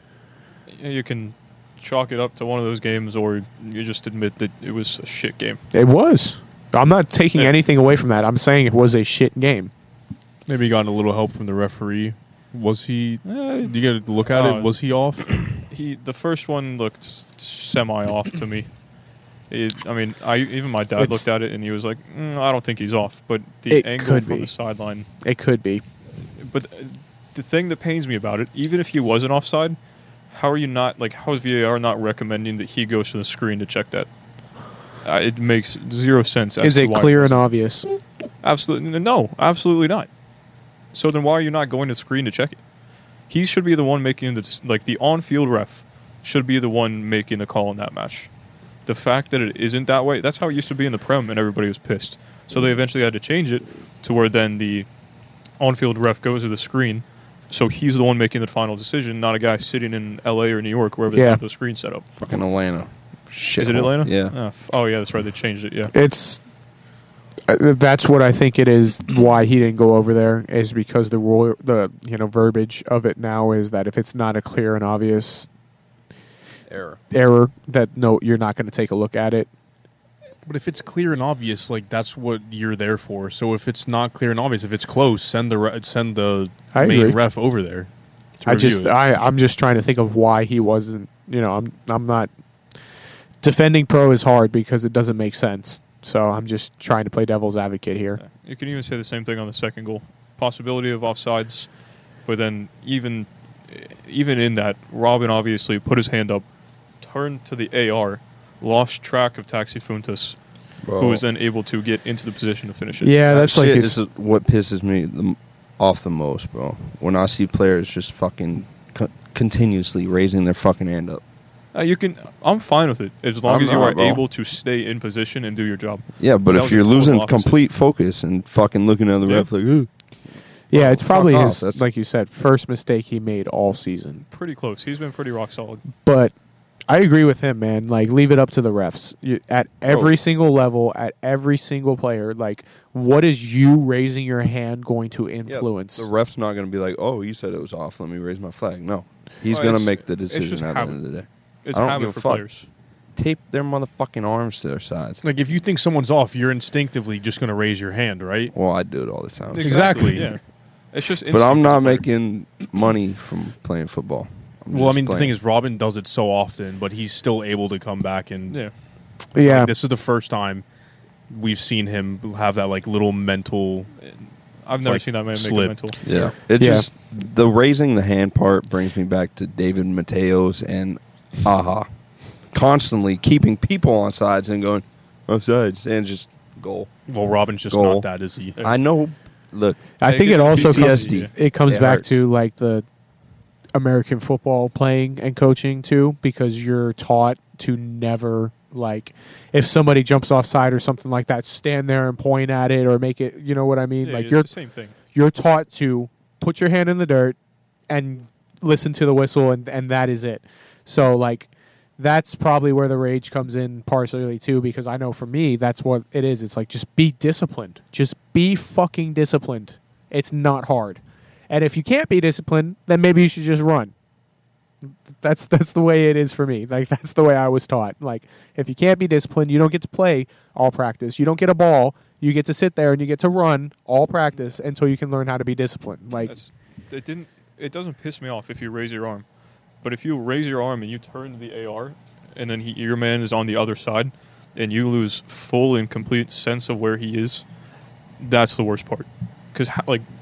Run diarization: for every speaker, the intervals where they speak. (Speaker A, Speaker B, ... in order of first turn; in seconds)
Speaker A: 0.7-5.6, 13.2-14.7, 15.7-18.7, 19.5-25.1, 26.4-29.8, 30.3-34.1, 35.0-37.4, 38.4-40.1, 40.9-42.6, 43.3-48.3, 48.9-54.9, 55.6-62.1, 63.6-65.9, 98.2-101.7, 102.2-106.5, 107.0-110.4, 111.0-113.2, 121.7-127.6, 134.3-135.8, 149.5-151.0, 151.7-152.7, 159.5-162.1, 174.0-176.0, 190.0-191.3, 204.0-204.9, 236.2-239.3, 239.8-247.4, 248.2-250.1
Speaker B: 5.7-9.7, 21.0-21.3, 23.7-24.5, 25.2-25.8, 36.6-37.9, 61.1-61.4, 65.9-66.4, 67.5-75.5, 77.1-79.5, 86.7-87.2, 88.5-92.3, 93.4-98.2, 113.0-114.0, 130.7-134.2, 136.0-136.3, 136.9-146.1, 169.3-169.7, 176.6-176.9, 190.0-192.9, 193.7-204.5, 205.1-207.4, 207.9-223.9, 225.1-236.3
Speaker C: 10.5-15.5, 80.5-87.9, 88.4-89.0, 155.2-158.5, 159.6-160.3, 164.7-168.7, 169.4-170.6, 171.3-173.9, 174.8-175.8, 187.1-188.6
Speaker D: 62.2-64.3, 76.7-77.0, 110.8-111.2, 113.3-121.2, 123.5-124.2, 126.2-129.9, 130.7-131.9, 139.9-140.1, 145.5-152.4, 153.2-155.2, 158.5-160.2, 161.3-165.4, 176.0-181.9, 182.5-186.9, 187.7-188.1, 188.6-189.9, 190.5-192.2